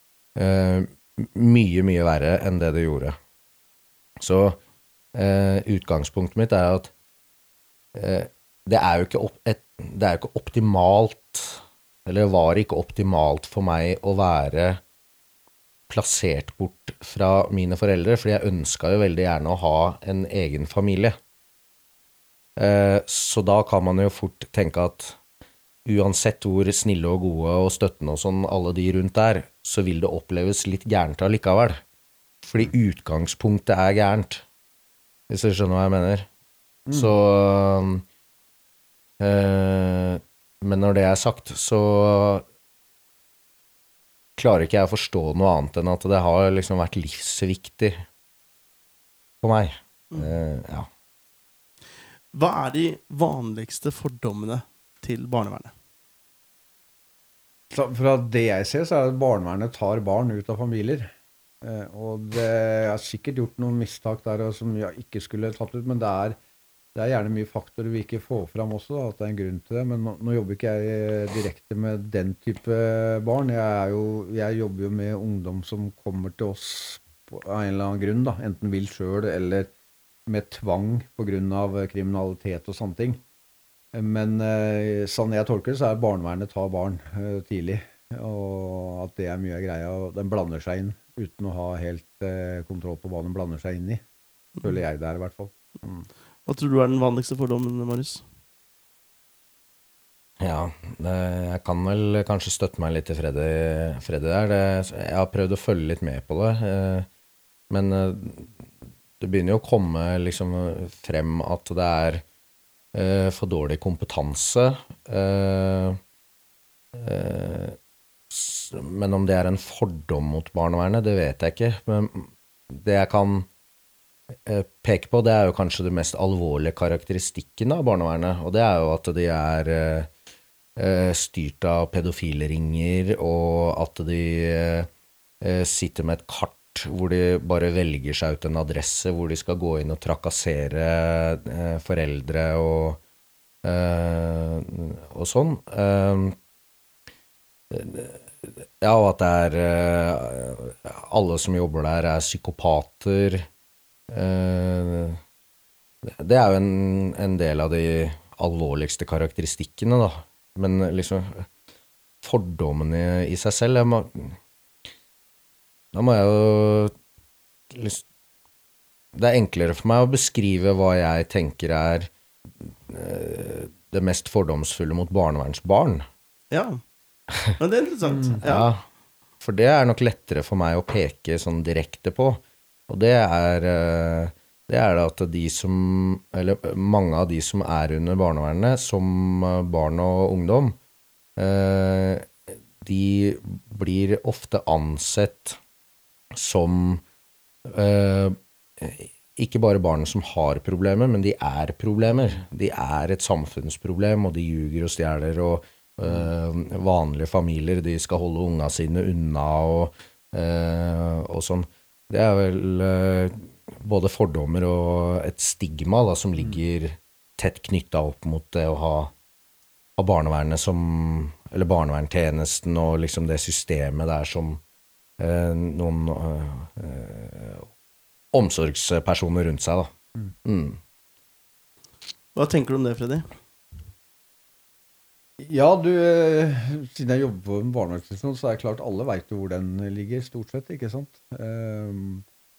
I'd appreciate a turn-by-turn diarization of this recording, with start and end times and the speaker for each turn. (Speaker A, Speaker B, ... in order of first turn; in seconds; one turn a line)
Speaker A: 0.4-3.2
Speaker A: 4.2-4.6
Speaker A: 5.2-6.9
Speaker A: 7.9-14.8
Speaker A: 15.9-21.2
Speaker A: 22.6-25.2
Speaker A: 25.9-31.8
Speaker A: 32.4-34.5
Speaker A: 35.3-36.3
Speaker B: 36.9-37.1
Speaker A: 36.9-38.0
Speaker A: 39.2-42.4
Speaker A: 44.4-48.0
Speaker A: 49.4-50.9
Speaker C: 52.3-55.7
Speaker B: 57.7-61.1
Speaker B: 61.6-66.4
Speaker B: 67.0-79.7
Speaker B: 80.3-83.2
Speaker B: 83.9-94.0
Speaker B: 94.6-96.1
Speaker C: 96.5-98.2
Speaker A: 100.4-107.1
Speaker A: 107.7-108.5
Speaker A: 109.2-112.2
Speaker A: 112.9-116.0
Speaker A: 116.9-117.8
Speaker A: 118.3-123.5
Speaker A: 124.5-130.1
Speaker A: 130.8-134.9
Speaker A: 135.4-143.0
Speaker A: 143.6-146.4
Speaker A: 147.7-153.5
Speaker A: 154.1-155.2
Speaker A: 156.1-161.5
Speaker A: 162.2-164.4
Speaker A: 165.9-166.9
Speaker A: 167.7-168.0
Speaker A: 169.2-176.1
Speaker C: 176.5-176.8
Speaker C: 177.6-178.7
Speaker A: 178.4-178.8
Speaker A: 179.4-190.8
Speaker A: 191.4-195.6
Speaker A: 196.3-197.0
Speaker A: 197.7-219.1
Speaker A: 220.0-224.6
Speaker A: 225.2-227.7
Speaker A: 228.3-229.9
Speaker A: 230.4-230.8
Speaker C: 232.3-233.4
Speaker B: 235.4-242.2